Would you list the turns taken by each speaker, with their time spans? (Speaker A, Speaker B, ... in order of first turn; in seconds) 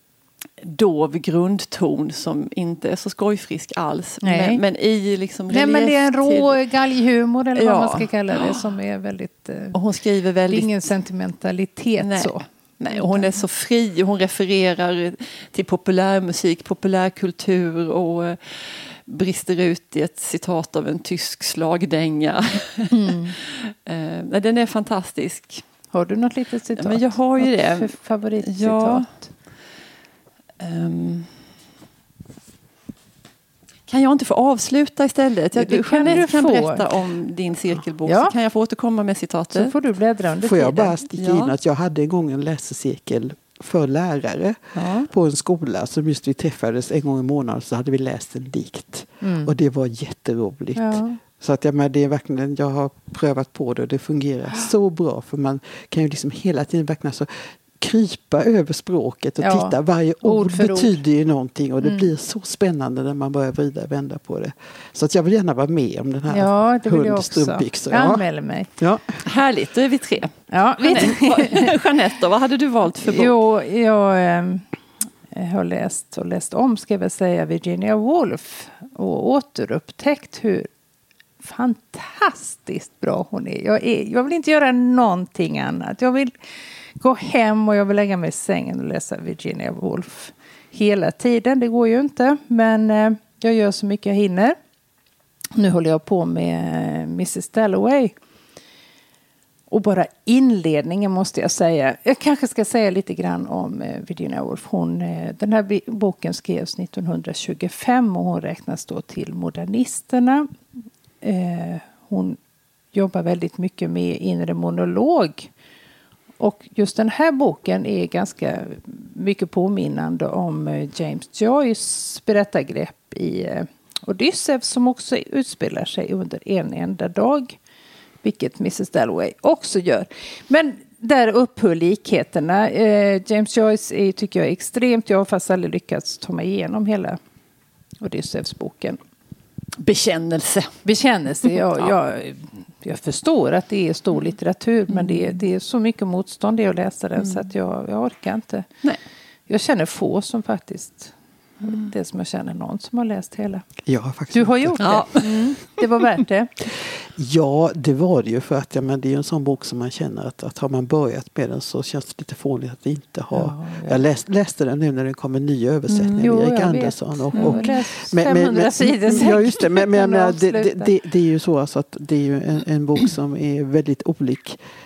Speaker A: 0.6-6.6, 7.5-8.6, 9.7-10.7, 12.0-25.6, 26.8-29.1, 30.6-31.4, 33.9-39.7, 41.2-41.5, 44.8-45.1, 69.2-73.3, 139.8-140.8, 141.4-141.9, 144.9-145.4, 147.2-147.5, 154.8-155.8, 165.9-166.2, 167.3-167.7
Speaker B: 4.2-4.6, 5.5-9.8, 10.5-13.4, 22.9-23.3, 25.9-29.3, 35.5-36.9, 38.0-38.3, 39.5-41.0, 49.2-49.5, 50.8-51.2, 59.4-61.0, 61.8-62.1, 66.3-68.7, 70.5-71.8, 73.0-74.7, 75.3-80.7, 81.4-86.3, 87.0-94.6, 95.5-98.2, 99.7-110.5, 111.2-112.4, 112.9-115.5, 116.4-127.6, 128.2-137.2, 138.0-139.0, 140.8-148.7, 149.5-156.5, 163.3-164.0, 166.2-170.9
Speaker C: 40.4-68.3, 68.8-69.2, 153.8-155.1, 156.7-174.6